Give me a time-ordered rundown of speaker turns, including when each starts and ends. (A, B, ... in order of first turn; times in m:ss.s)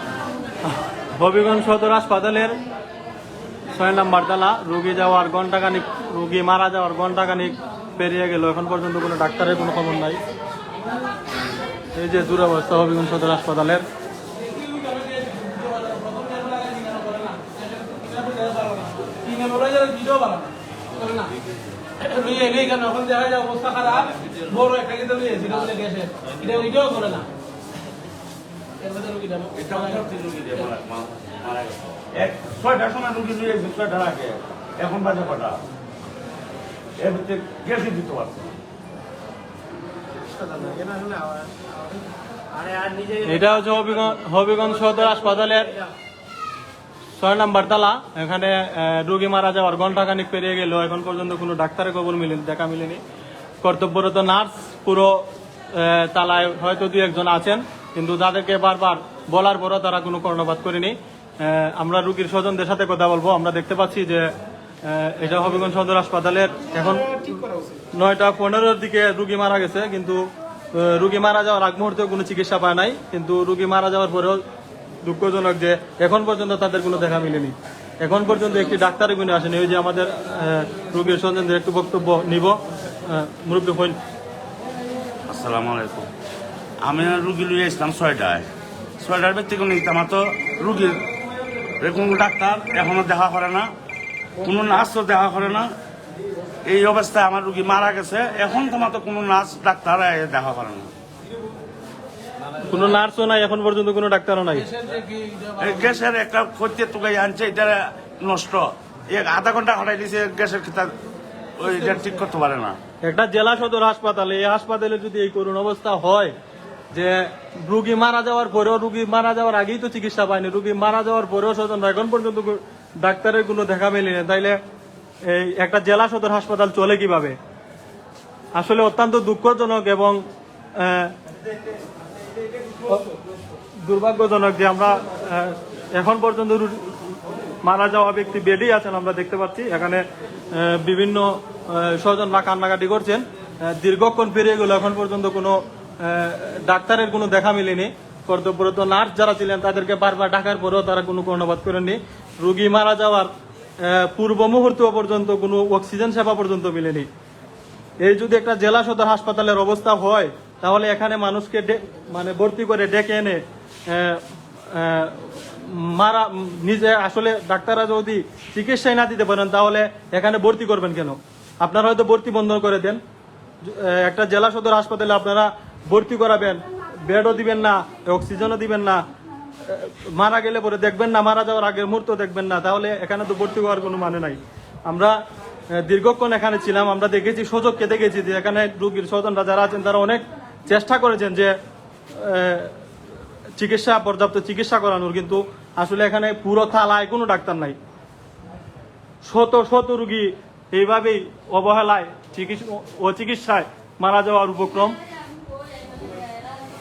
0:00.7-0:02.6 A
0:03.7-0:10.2 A
0:12.0-0:13.8 A
0:14.4-0:21.3 B
0:22.0-0:27.3 B
0:28.8-0:29.9 B
0:29.6-0:35.6 C
0:37.0-0:38.6 C
0:43.1-0:45.7 A
0:47.2-0:53.0 A
0:53.6-1:04.3 A
1:04.8-1:07.4 A
1:07.9-1:10.2 A
1:10.8-1:14.4 A
1:15.0-1:24.0 A
1:25.3-1:26.1 C
1:26.8-1:28.5 C
1:29.0-1:31.0 C
1:31.8-1:33.7 C
1:34.4-1:35.7 C
1:36.6-1:40.9 C
1:42.7-1:44.7 A
1:44.6-1:46.0 B
1:45.6-1:50.9 C
1:51.6-1:52.8 C
1:53.0-1:56.3 A
1:56.9-2:04.6 A
2:05.3-2:07.4 A
2:08.6-2:10.2 A
2:10.8-2:11.1 A
2:12.8-2:13.1 A
2:13.8-2:37.1 A
2:38.0-2:53.0 A
2:53.6-2:59.0 A
2:59.6-3:05.2 A
3:05.8-3:11.5 A
3:12.1-3:12.7 A
3:13.6-3:17.8 A
3:19.2-3:25.0 A